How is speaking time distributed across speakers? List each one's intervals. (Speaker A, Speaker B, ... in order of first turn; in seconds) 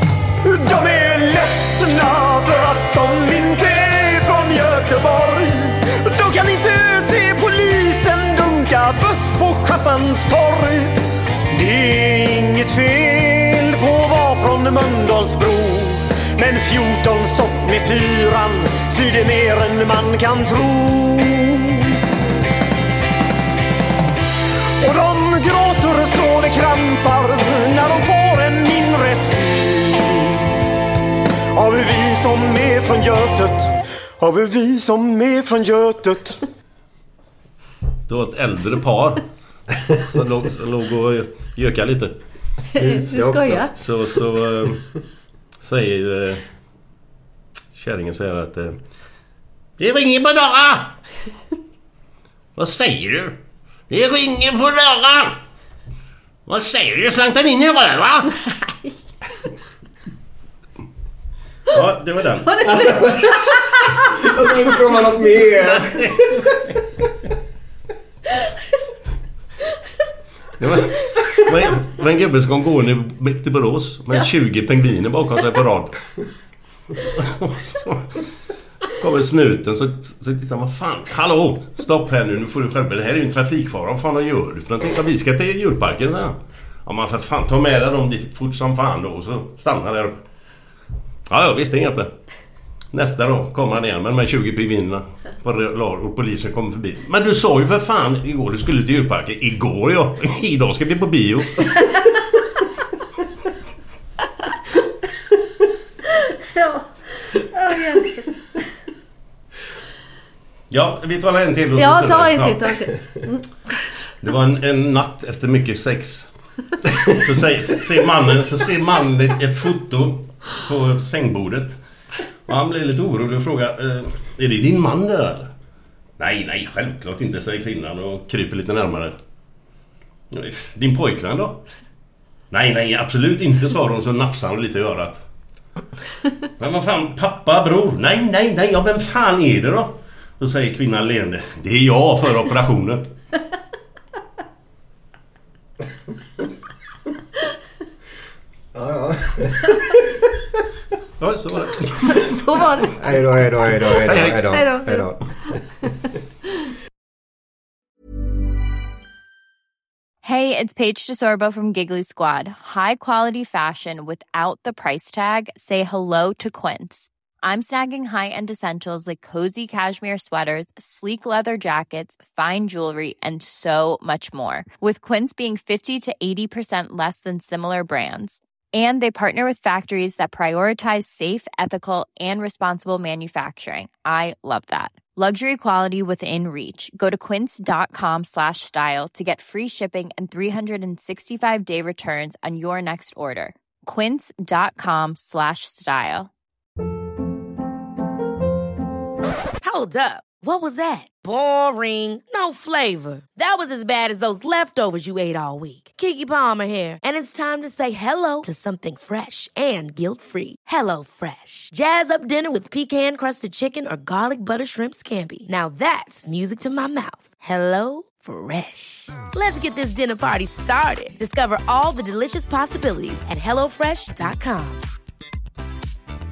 Speaker A: 0.4-22.0, 24.8-30.5, 31.5-36.4
Speaker B: 38.1-39.3, 39.9-42.2, 43.8-44.9, 45.6-46.4, 47.7-48.8, 49.8-51.0, 52.6-53.4, 53.9-55.4, 56.5-58.4, 61.7-62.7, 65.6-66.6, 70.6-76.0, 77.0-78.3, 78.9-90.2, 91.3-92.1, 92.9-101.8, 110.7-112.9, 114.2-116.3, 117.0-121.8, 122.5-125.5, 126.2-129.2, 130.3-131.6, 132.5-135.2, 136.6-143.1, 151.2-152.4, 154.0-154.6
Speaker C: 42.7-43.7, 58.7-58.9, 62.5-63.9, 106.1-108.4, 111.8-113.5, 152.1-153.2, 154.3-155.1
Speaker D: 42.8-43.7, 62.6-66.6, 148.7-150.2, 153.0-155.6
Speaker E: 160.2-196.3
Speaker F: 199.6-224.8